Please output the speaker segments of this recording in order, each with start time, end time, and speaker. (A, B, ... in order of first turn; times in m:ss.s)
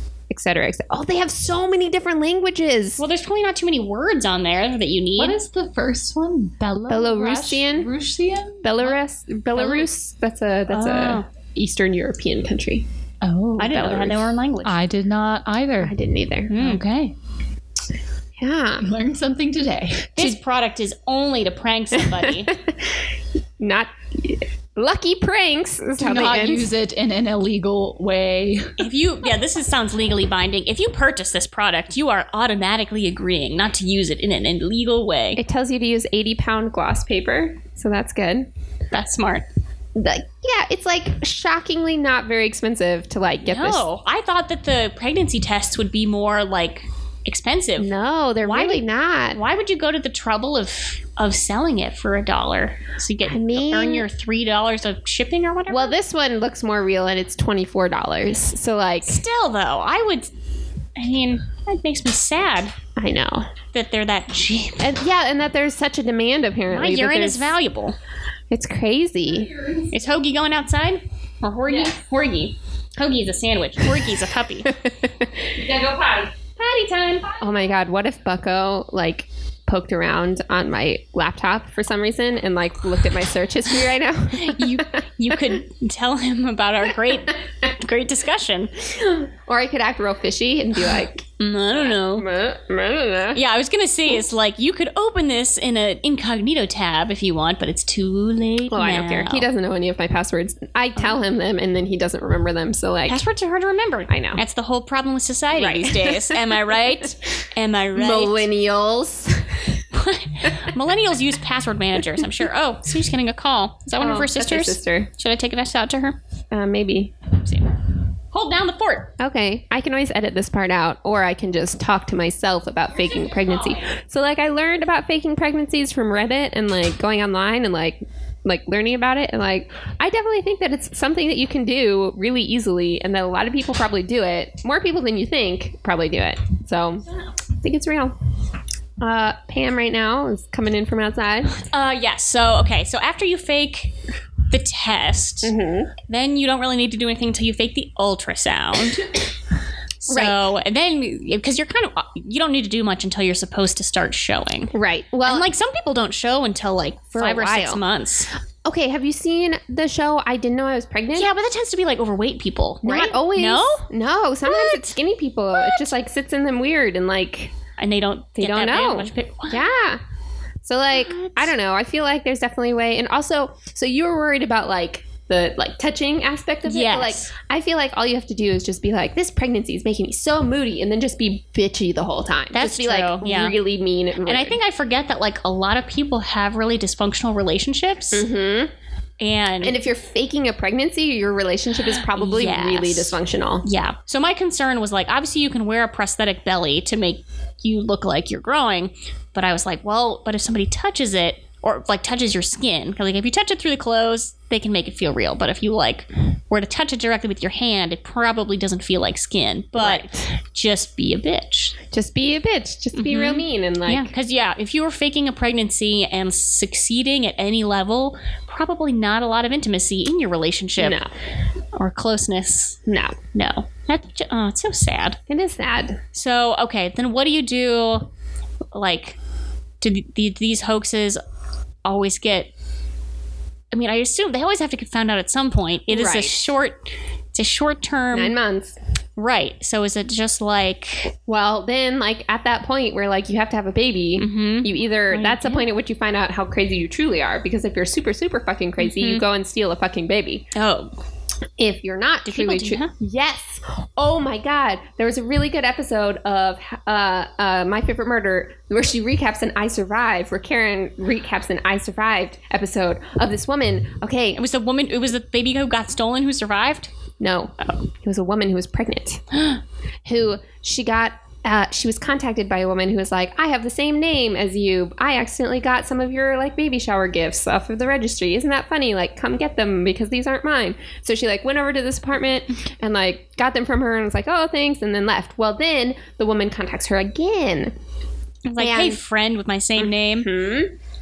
0:00.3-0:03.0 A
0:03.0-0:05.4 B
0:05.2-0:08.9 C
0:06.9-0:07.9 A
0:08.6-0:12.8 A
0:09.6-0:09.9 B
0:10.7-0:11.2 B
0:13.2-0:15.9 C
0:13.6-0:14.8 B
0:15.8-0:16.5 A
0:16.5-0:16.8 B
0:16.5-0:17.2 C
0:18.4-0:18.9 A
0:18.8-0:20.4 C
0:20.2-0:22.5 B
0:22.2-0:23.0 A
0:23.6-0:26.7 A
0:26.0-0:28.8 C
0:28.8-0:35.4 B
0:35.4-0:38.5 A
0:38.9-0:39.5 B
0:40.0-0:43.8 A
0:43.5-0:48.8 B
0:47.8-0:49.4 A
0:49.3-0:56.0 B
0:53.3-0:54.1 A
0:55.7-0:59.2 A
0:59.1-1:00.3 B
1:01.0-1:02.7 B
1:03.0-1:03.5 A
1:03.7-1:04.9 B
1:04.8-1:07.6 A
1:06.7-1:08.0 B
1:08.5-1:09.5 A
1:09.6-1:09.8 C
1:09.9-1:14.7 B
1:14.6-1:15.5 A
1:15.6-1:16.3 C
1:16.6-1:17.4 B
1:17.4-1:25.0 A
1:24.3-1:28.7 B
1:28.9-1:33.4 A
1:31.4-1:32.3 B
1:33.3-1:39.5 B
1:38.7-1:43.2 A
1:43.1-1:48.5 B
1:44.1-1:44.4 A
1:45.6-1:46.4 A
1:48.0-1:49.7 A
1:49.9-1:56.2 B
1:54.0-1:55.1 A
1:56.5-1:57.3 A
1:57.4-1:57.8 B
1:58.3-1:59.1 B
1:59.2-2:17.0 A
2:03.1-2:03.8 B
2:17.6-2:18.2 A
2:19.0-2:21.6 A
2:21.6-2:23.9 B
2:24.5-2:25.5 B
2:25.4-2:25.9 A
2:26.1-2:29.2 B
2:30.0-2:34.7 B
2:30.1-2:30.4 A
2:34.7-2:35.5 A
2:35.2-2:38.3 B
2:37.1-2:37.8 A
2:38.6-2:41.3 A
2:41.2-2:43.9 B
2:42.8-2:47.5 A
2:44.4-2:45.0 B
2:45.5-2:45.9 B
2:47.8-2:49.7 B
2:48.4-2:50.0 A
2:50.6-3:04.6 A
2:50.9-2:51.5 B
2:56.7-2:57.3 B
3:02.5-3:03.6 B
3:04.2-3:08.2 B
3:08.1-3:08.7 A
3:09.2-3:09.8 B
3:09.6-3:13.7 A
3:12.0-3:31.8 B
3:29.8-3:30.3 A
3:31.9-3:34.1 A
3:33.0-3:41.0 B
3:40.8-3:41.1 A
3:41.8-3:42.8 B
3:42.9-3:43.2 A
3:43.3-3:45.2 B
3:45.3-3:46.0 A
3:46.1-3:48.1 B
3:48.7-3:49.2 B
3:49.8-3:51.2 B
3:51.8-3:52.5 B
3:53.7-3:58.4 B
3:55.9-3:56.4 A
3:58.1-3:58.8 A
3:59.2-4:01.2 B
4:01.3-4:10.5 A
4:04.2-4:05.7 B
4:08.8-4:09.2 B
4:10.6-4:10.9 B
4:11.6-4:24.4 A
4:12.2-4:12.9 B
4:24.4-4:26.9 B
4:27.2-4:29.2 A
4:30.0-4:47.7 A
4:48.5-4:50.3 B
4:48.6-4:49.0 A
4:49.8-4:50.7 A